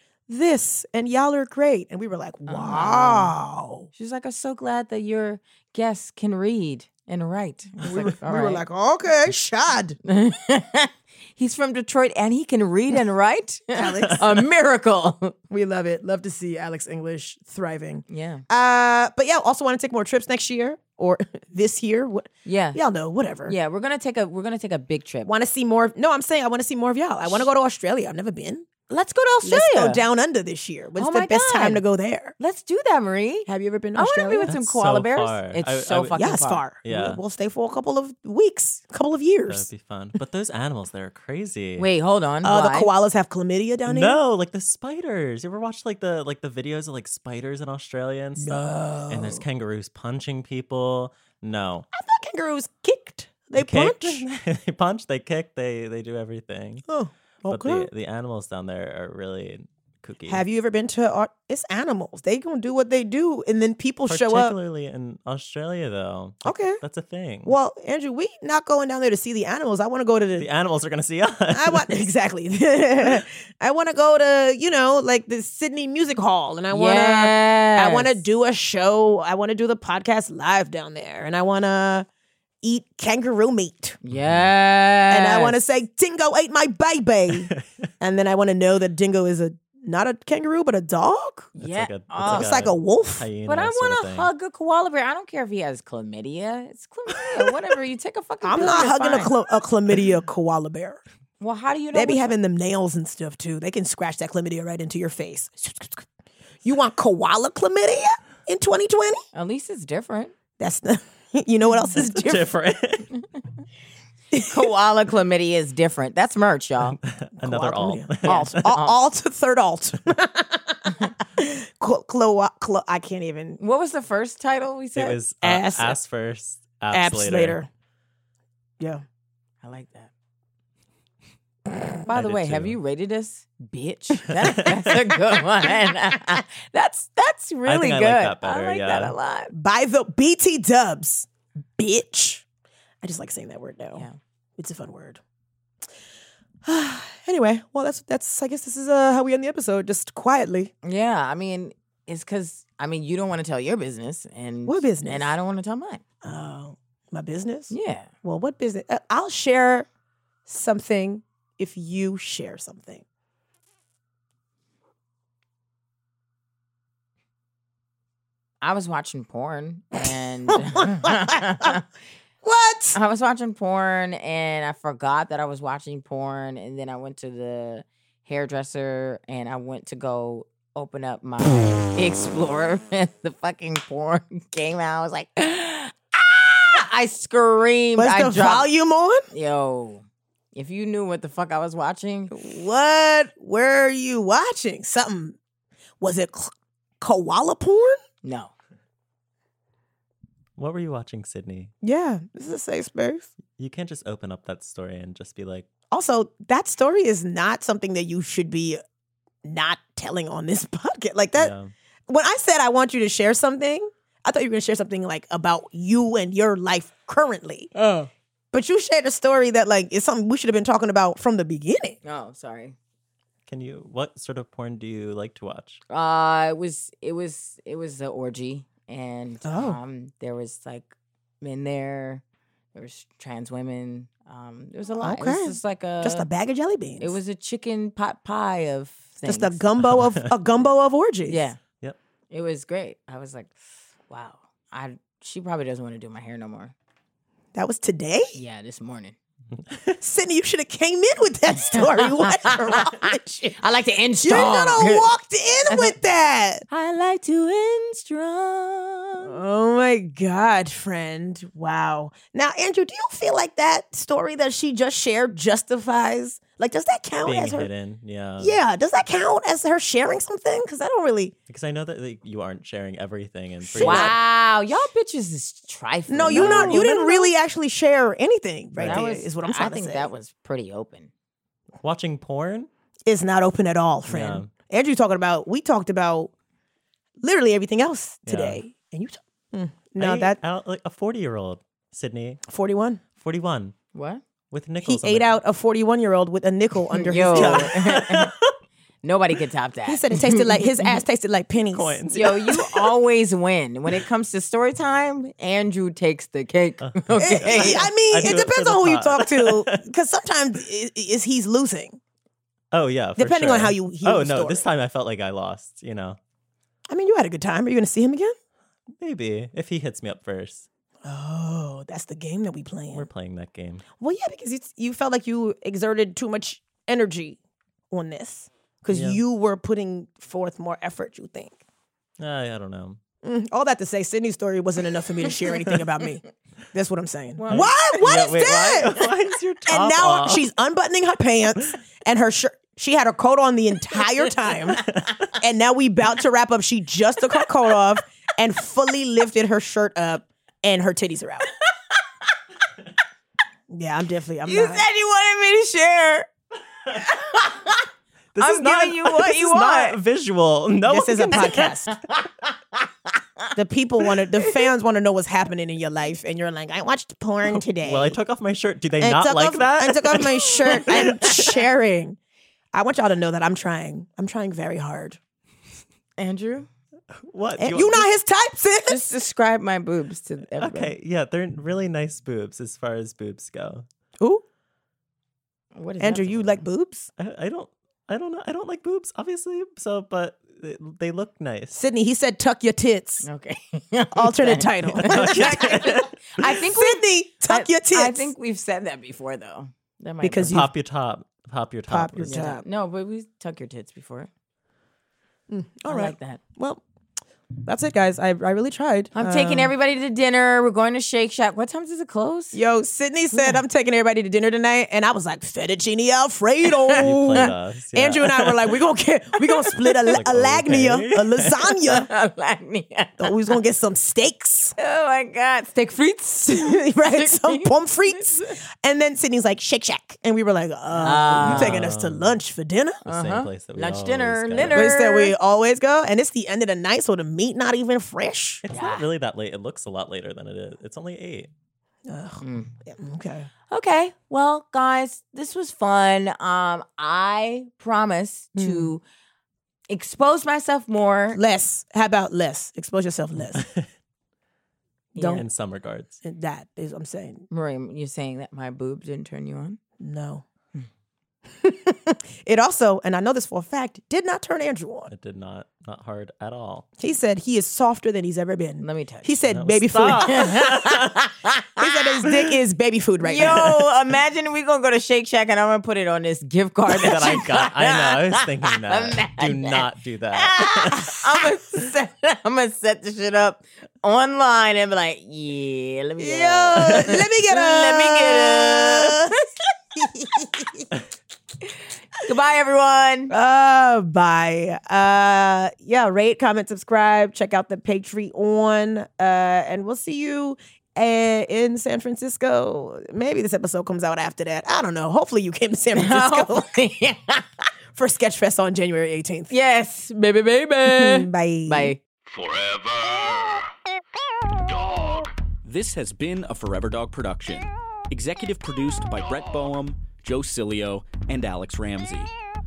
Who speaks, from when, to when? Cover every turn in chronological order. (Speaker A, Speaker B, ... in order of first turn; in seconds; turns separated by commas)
Speaker A: 0.3-3.9, Speaker B: 2.5-3.3, Speaker B: 4.0-8.6, Speaker A: 7.8-10.0, Speaker B: 10.0-15.3, Speaker A: 13.7-14.3, Speaker A: 15.5-23.5, Speaker B: 18.1-18.4, Speaker B: 22.4-22.8, Speaker B: 23.5-25.3, Speaker A: 25.2-32.3, Speaker B: 28.9-30.0, Speaker B: 31.0-31.8, Speaker B: 32.4-36.6, Speaker A: 33.5-34.5, Speaker C: 34.4-36.3, Speaker A: 36.1-39.7, Speaker C: 36.8-37.2, Speaker C: 39.5-41.9, Speaker B: 41.8-42.9, Speaker A: 42.4-44.2, Speaker C: 43.9-51.9, Speaker A: 48.4-49.4, Speaker A: 51.9-54.2, Speaker C: 53.5-56.8, Speaker A: 56.9-57.9, Speaker C: 57.5-60.4, Speaker A: 60.3-64.5, Speaker C: 64.1-67.5, Speaker A: 66.4-66.8, Speaker A: 67.4-70.5, Speaker C: 70.4-72.0, Speaker A: 71.5-82.1, Speaker B: 76.7-78.2, Speaker A: 82.6-84.0, Speaker B: 84.0-85.5, Speaker C: 84.1-84.5, Speaker A: 85.1-91.5, Speaker B: 91.5-92.5, Speaker C: 91.6-94.3, Speaker A: 92.2-93.2, Speaker B: 93.5-99.3, Speaker A: 98.4-101.0, Speaker B: 101.4-102.3, Speaker A: 101.9-106.0, Speaker A: 106.6-109.2, Speaker B: 109.3-110.3, Speaker A: 110.6-112.5, Speaker C: 111.9-113.2, Speaker A: 114.3-114.7, Speaker B: 114.3-117.0, Speaker C: 117.0-118.6, Speaker A: 117.4-123.6, Speaker B: 118.2-119.0, Speaker B: 123.6-125.2, Speaker C: 125.0-127.6, Speaker A: 125.4-126.0, Speaker A: 126.9-127.7, Speaker B: 129.6-130.1, Speaker B: 132.1-139.5, Speaker C: 132.1-132.8, Speaker C: 134.4-135.0, Speaker C: 137.6-139.1, Speaker A: 139.5-142.4, Speaker A: 143.0-145.2, Speaker A: 146.6-150.7, Speaker B: 150.8-156.0, Speaker A: 154.7-155.3, Speaker A: 156.2-159.9, Speaker B: 157.7-158.1, Speaker A: 160.4-163.0, Speaker B: 168.6-171.8, Speaker A: 170.5-171.8, Speaker A: 172.4-173.0, Speaker B: 172.9-188.7, Speaker A: 187.9-189.3, Speaker B: 189.3-192.3, Speaker A: 192.3-195.4, Speaker A: 196.0-198.0, Speaker B: 198.2-198.5, Speaker C: 200.6-201.7, Speaker A: 201.8-203.3, Speaker C: 203.6-205.7, Speaker A: 205.9-208.8, Speaker A: 209.4-211.5, Speaker C: 211.3-211.7, Speaker A: 212.1-217.7, Speaker B: 217.8-218.1, Speaker A: 218.5-222.0, Speaker B: 222.0-222.8, Speaker C: 223.5-225.8, Speaker B: 225.9-232.2, Speaker A: 229.4-229.8, Speaker B: 232.7-236.3, Speaker A: 235.0-237.1, Speaker B: 237.0-239.6, Speaker A: 239.2-241.5, Speaker B: 241.3-241.6, Speaker B: 242.3-243.5, Speaker B: 244.1-246.7, Speaker A: 247.5-248.4, Speaker B: 248.3-249.2, Speaker C: 249.7-250.0, Speaker A: 250.0-253.6, Speaker B: 251.7-255.1, Speaker A: 254.2-256.6, Speaker B: 255.7-255.9, Speaker B: 256.7-259.4, Speaker A: 259.2-267.7, Speaker C: 267.2-268.6, Speaker A: 268.4-271.3, Speaker C: 271.5-274.1, Speaker A: 273.6-274.1, Speaker B: 273.8-277.3, Speaker A: 276.1-280.1, Speaker C: 276.3-276.9, Speaker C: 278.8-279.0, Speaker B: 278.8-281.1, Speaker C: 281.8-282.7, Speaker A: 283.1-286.3, Speaker C: 284.1-284.5, Speaker A: 287.2-290.4, Speaker C: 288.2-288.6, Speaker C: 290.0-292.4, Speaker A: 292.5-293.0, Speaker C: 293.2-293.7, Speaker B: 293.9-294.2, Speaker C: 294.5-295.4, Speaker A: 294.8-297.8, Speaker B: 297.0-298.3, Speaker C: 297.1-298.5, Speaker B: 299.0-300.8, Speaker A: 299.9-302.0, Speaker C: 301.7-302.9, Speaker B: 302.1-307.8, Speaker C: 306.8-309.9, Speaker A: 307.2-312.0, Speaker C: 312.7-316.2, Speaker A: 313.2-314.6, Speaker A: 316.9-318.4, Speaker C: 319.0-320.7, Speaker A: 321.0-323.1, Speaker C: 322.9-323.8, Speaker A: 324.0-327.4, Speaker A: 327.9-331.6, Speaker C: 328.9-329.2, Speaker C: 332.2-333.0, Speaker A: 333.2-336.2, Speaker A: 336.7-339.1, Speaker B: 337.4-337.7, Speaker C: 337.5-340.4, Speaker A: 339.6-351.5, Speaker C: 344.8-345.3, Speaker A: 353.7-354.8, Speaker B: 354.4-356.3, Speaker B: 356.9-357.8, Speaker C: 358.3-361.7, Speaker B: 358.4-360.0, Speaker A: 360.9-361.9, Speaker B: 361.9-363.5, Speaker A: 363.5-368.2, Speaker C: 367.6-371.6, Speaker A: 369.0-372.2, Speaker B: 370.7-371.3, Speaker A: 372.7-375.2, Speaker B: 376.2-376.7, Speaker C: 377.2-378.1, Speaker A: 377.6-379.0, Speaker B: 378.9-380.9, Speaker C: 380.6-383.8, Speaker B: 385.7-386.6, Speaker A: 386.0-387.1, Speaker C: 387.2-391.8, Speaker A: 391.7-393.2, Speaker B: 393.2-400.6, Speaker A: 394.1-398.3, Speaker C: 394.9-396.5, Speaker A: 400.2-400.7, Speaker C: 400.5-402.4, Speaker A: 401.9-402.6, Speaker B: 402.2-404.3, Speaker A: 405.5-406.8, Speaker B: 405.9-406.4, Speaker A: 407.6-409.7, Speaker B: 409.1-412.6, Speaker A: 412.5-422.1, Speaker B: 413.3-413.6, Speaker B: 416.8-417.4, Speaker C: 416.9-418.8, Speaker B: 419.8-420.1, Speaker C: 420.1-421.7, Speaker B: 421.8-423.5, Speaker A: 423.2-424.8, Speaker B: 424.8-427.7, Speaker A: 426.5-433.0, Speaker B: 431.0-431.8, Speaker C: 431.3-432.3, Speaker C: 433.0-434.9, Speaker B: 433.1-435.3, Speaker A: 434.6-438.6, Speaker C: 438.6-441.5, Speaker B: 438.7-439.0, Speaker A: 442.1-443.5, Speaker B: 442.4-442.7, Speaker B: 443.7-449.0, Speaker A: 448.6-448.9, Speaker B: 449.9-451.4, Speaker A: 451.3-453.6, Speaker C: 453.5-453.9, Speaker B: 455.1-455.4, Speaker A: 455.1-455.4, Speaker C: 455.2-456.2, Speaker A: 456.2-457.5, Speaker B: 457.5-459.8, Speaker A: 460.0-460.4, Speaker A: 461.5-465.1, Speaker C: 465.1-466.9, Speaker A: 467.0-470.6, Speaker B: 468.8-469.3, Speaker C: 469.5-471.2, Speaker B: 470.2-471.8, Speaker A: 471.8-473.9, Speaker B: 473.2-479.8, Speaker C: 476.9-481.2, Speaker B: 480.3-489.5, Speaker A: 486.2-489.4, Speaker A: 489.9-490.8, Speaker B: 492.2-493.3, Speaker A: 493.3-506.7, Speaker B: 505.9-507.6, Speaker A: 507.9-509.5, Speaker B: 509.5-512.0, Speaker A: 510.8-511.9, Speaker D: 512.3-513.7, Speaker D: 514.6-515.3, Speaker E: 515.6-522.3